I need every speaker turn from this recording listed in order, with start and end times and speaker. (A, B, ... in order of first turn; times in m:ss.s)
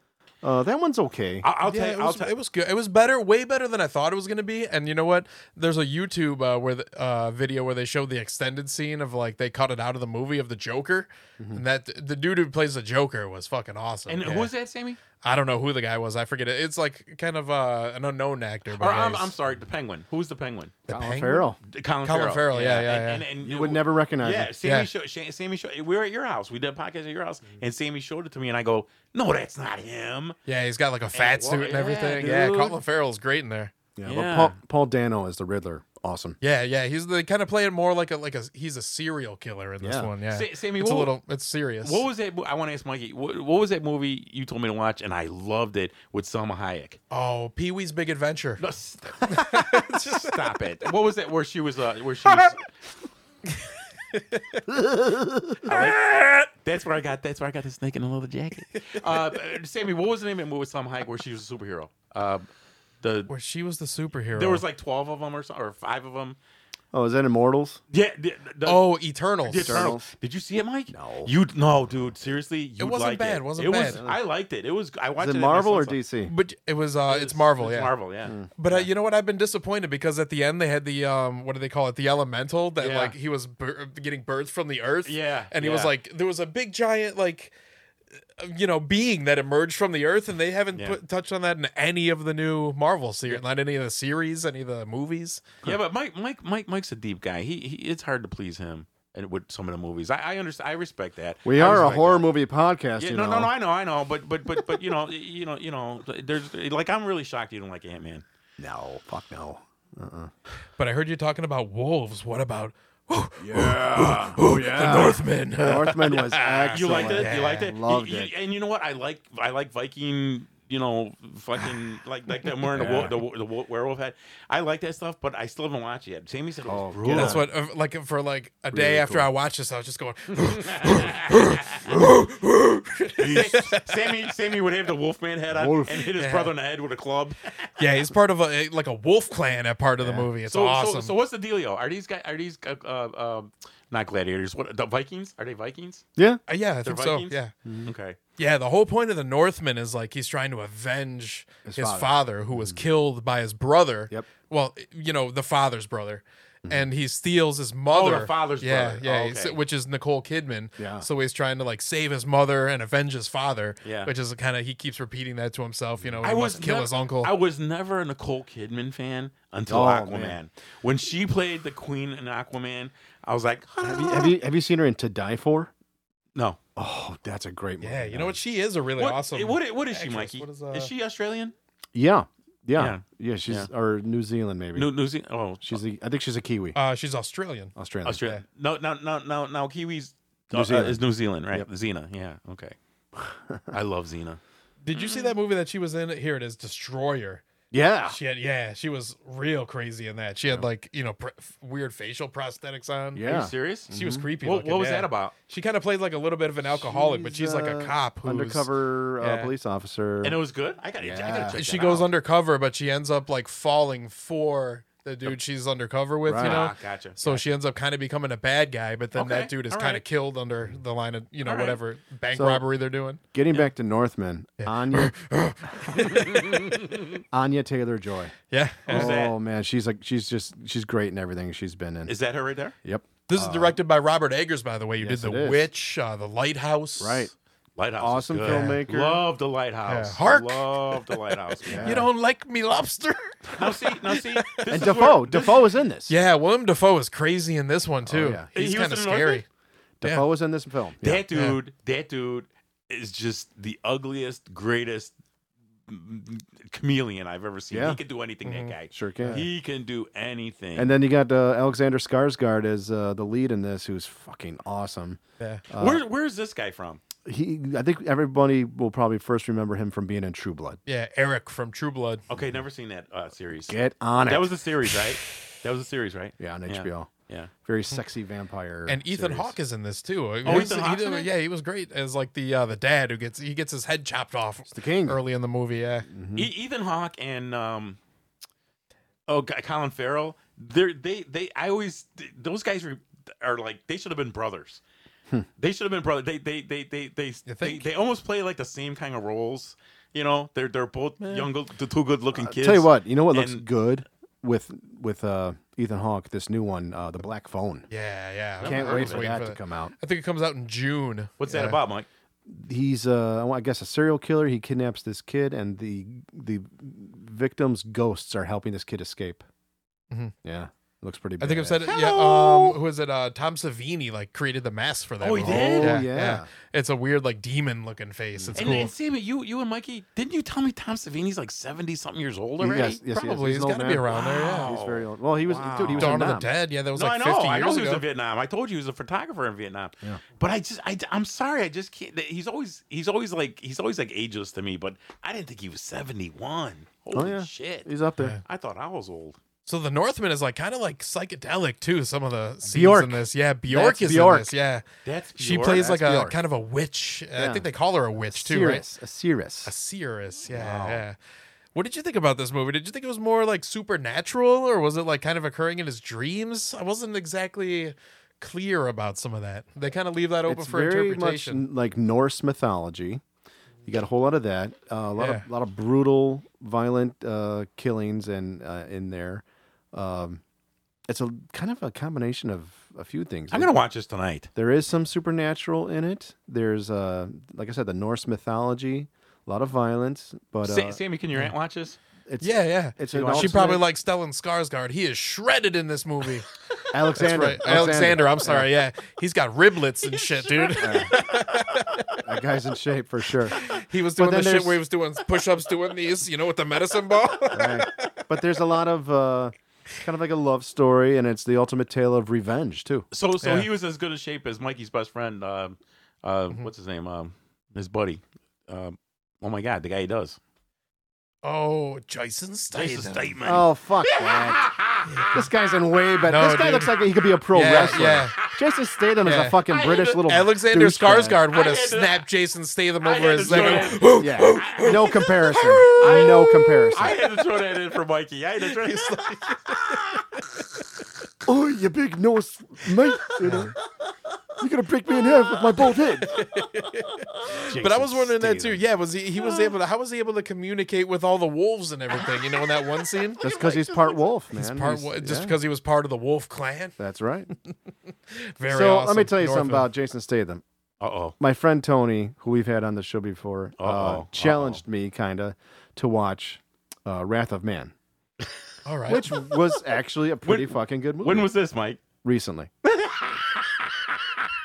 0:00.4-0:01.5 A
0:01.4-0:02.3 B
0:01.6-0:14.5 C
0:14.1-0:15.0 B
0:15.2-0:19.3 C
0:18.7-0:20.8 B
0:20.9-0:21.5 C
0:20.9-0:21.6 A
0:21.6-0:30.4 B
0:22.0-0:23.2 C
0:23.4-0:24.5 A
0:24.6-0:24.9 C
0:30.5-0:33.7 C
0:31.1-0:32.8 B
0:34.0-0:36.4 A
0:34.0-0:34.6 B
0:36.4-0:42.0 C
0:39.8-0:40.1 A
0:40.3-0:41.2 B
0:41.8-0:47.0 B
0:47.1-0:48.6 C
0:48.6-0:52.6 B
0:49.3-0:50.6 C
0:52.2-0:52.5 C
0:53.5-0:54.6 C
0:54.7-0:55.6 A
0:55.6-0:56.0 B
0:55.6-0:56.5 C
0:56.6-1:02.5 B
1:03.0-1:03.3 B
1:03.3-1:04.6 C
1:04.3-1:06.4 B
1:06.9-1:07.8 A
1:07.9-1:08.8 B
1:08.6-1:09.9 C
1:09.4-1:16.0 B
1:09.6-1:10.1 A
1:10.9-1:11.3 A
1:12.8-1:14.0 C
1:13.9-1:14.2 A
1:15.2-1:16.3 A
1:16.3-1:17.9 C
1:17.0-1:18.9 B
1:18.2-1:18.5 A
1:18.6-1:27.5 C
1:22.8-1:23.2 B
1:25.0-1:25.9 B
1:28.4-1:35.6 C
1:30.7-1:31.0 B
1:35.6-1:42.2 B
1:41.4-1:43.5 A
1:43.0-1:48.2 B
1:48.6-1:50.3 A
1:50.8-1:57.7 C
1:53.4-1:58.3 A
1:56.7-2:07.4 B
2:02.7-2:03.1 A
2:06.7-2:07.4 A
2:07.1-2:14.1 C
2:08.7-2:09.3 A
2:10.6-2:11.9 B
2:13.2-2:17.8 B
2:15.5-2:16.1 A
2:16.2-2:16.5 C
2:17.8-2:21.1 C
2:20.0-2:20.3 A
2:20.4-2:26.0 B
2:26.2-2:26.4 A
2:26.5-2:27.5 C
2:26.8-2:28.2 B
2:27.6-2:27.9 A
2:28.4-2:47.3 C
2:31.6-2:32.8 A
2:36.6-2:36.9 A
2:37.9-2:39.6 B
2:40.8-2:41.0 A
2:43.8-2:44.1 B
2:46.0-2:46.3 A
2:46.2-2:54.4 B
2:49.7-2:50.4 A
2:53.8-2:55.7 A
2:56.8-2:58.4 A
2:57.8-3:00.9 C
2:59.0-3:01.5 B
3:01.9-3:04.9 A
3:02.8-3:03.7 B
3:04.7-3:05.8 B
3:05.6-3:06.8 A
3:06.7-3:08.4 C
3:07.8-3:08.2 A
3:08.0-3:12.8 B
3:10.5-3:11.7 A
3:13.2-3:13.7 A
3:13.7-3:14.4 B
3:14.8-3:17.4 C
3:14.9-3:15.3 B
3:17.7-3:18.2 A
3:18.1-3:23.3 C
3:23.1-3:24.3 A
3:23.2-3:25.3 B
3:23.9-3:28.7 C
3:26.7-3:30.4 A
3:29.2-3:29.5 C
3:30.2-3:32.1 B
3:31.0-3:31.6 A
3:31.5-3:43.2 C
3:36.2-3:36.7 A
3:36.4-3:37.4 B
3:39.1-3:40.0 B
3:41.4-3:41.8 B
3:42.3-3:42.6 A
3:43.3-3:45.1 A
3:44.6-3:46.9 C
3:46.0-3:47.1 B
3:47.3-3:48.3 A
3:48.5-3:49.1 C
3:48.9-3:49.3 B
3:48.9-3:52.1 A
3:52.1-3:52.7 B
3:52.8-3:53.8 A
3:53.3-3:57.3 C
3:55.0-3:55.6 A
3:57.0-3:57.3 A
3:57.8-4:02.0 B
3:58.0-3:59.2 A
3:58.4-3:58.8 C
3:59.8-4:04.9 C
4:01.6-4:02.1 A
4:03.6-4:05.6 B
4:04.7-4:06.1 A
4:06.1-4:09.4 C
4:08.0-4:08.5 A
4:08.5-4:09.4 B
4:10.0-4:11.2 A
4:11.0-4:15.1 B
4:15.9-4:20.9 B
4:17.7-4:18.0 A
4:18.4-4:19.4 C
4:18.9-4:19.4 A
4:20.8-4:26.0 A
4:25.4-4:25.6 C
4:25.8-4:27.0 B
4:27.2-4:30.8 A
4:30.9-4:32.2 C
4:32.3-4:37.5 B
4:33.7-4:34.5 A
4:36.4-4:37.1 A
4:37.6-4:39.5 A
4:38.9-4:46.1 C
4:40.4-4:41.3 B
4:44.7-4:45.2 A
4:46.1-4:46.5 A
4:46.3-4:48.0 B
4:49.3-4:54.8 B
4:55.6-5:03.6 B
4:57.4-4:57.8 C
5:02.4-5:07.9 A
5:07.9-5:11.8 C
5:08.6-5:09.3 B
5:08.6-5:09.9 A
5:11.4-5:12.1 B
5:12.5-5:19.4 A
5:20.4-5:21.9 A
5:21.4-5:28.9 C
5:21.9-5:22.8 B
5:25.2-5:26.0 B
5:25.4-5:26.5 A
5:28.4-5:28.8 A
5:28.5-5:33.0 B
5:32.6-5:36.5 A
5:33.0-5:34.7 C
5:34.1-5:36.2 B
5:35.9-5:38.0 C
5:36.9-5:47.9 B
5:47.1-5:48.4 A
5:48.4-5:49.4 B
5:49.6-5:54.8 C
5:52.6-5:54.5 A
5:55.0-5:55.9 B
5:55.4-5:58.8 C
5:55.7-5:56.4 A
5:57.4-5:57.6 A
5:58.3-5:59.7 A
5:59.6-6:01.2 C
6:00.5-6:01.0 A
6:01.7-6:11.6 C
6:10.5-6:13.2 A
6:13.8-6:20.4 A
6:15.2-6:15.4 C
6:21.1-6:23.7 A
6:23.5-6:24.5 B
6:24.5-6:31.0 A
6:30.6-6:32.0 B
6:32.3-6:33.8 A
6:32.4-6:36.5 C
6:33.1-6:33.7 B
6:36.9-6:38.7 A
6:37.1-6:42.2 C
6:40.3-6:42.1 B
6:40.8-6:41.2 A
6:42.2-6:43.6 A
6:43.5-6:48.1 C
6:44.2-6:44.8 A
6:47.5-6:53.1 A
6:53.1-7:00.4 B
6:53.4-6:53.7 C
7:01.4-7:03.4 C
7:02.7-7:05.4 B
7:03.4-7:04.6 A
7:05.1-7:05.5 C
7:05.3-7:11.4 A
7:06.3-7:07.0 C
7:07.5-7:08.4 C
7:09.2-7:09.6 C
7:09.6-7:10.3 B
7:10.2-7:16.9 C
7:11.5-7:12.2 B
7:13.0-7:20.2 B
7:13.4-7:17.2 A
7:18.6-7:20.6 C
7:21.4-7:23.8 A
7:23.4-7:23.8 C
7:24.6-7:26.4 A
7:25.8-7:27.4 B
7:26.2-7:33.4 C
7:27.5-7:28.8 A
7:29.4-7:29.7 B
7:32.2-7:34.3 B
7:33.4-7:35.6 A
7:34.5-7:37.0 C
7:37.0-7:37.5 A
7:38.3-7:39.9 C
7:38.7-7:40.6 A
7:41.0-7:41.3 B
7:41.4-7:47.9 A
7:43.8-7:44.8 B
7:48.8-7:49.2 C
7:49.1-7:51.5 A
7:49.2-7:49.4 B
7:50.4-7:52.0 B
7:52.2-7:52.7 A
7:52.8-7:54.5 B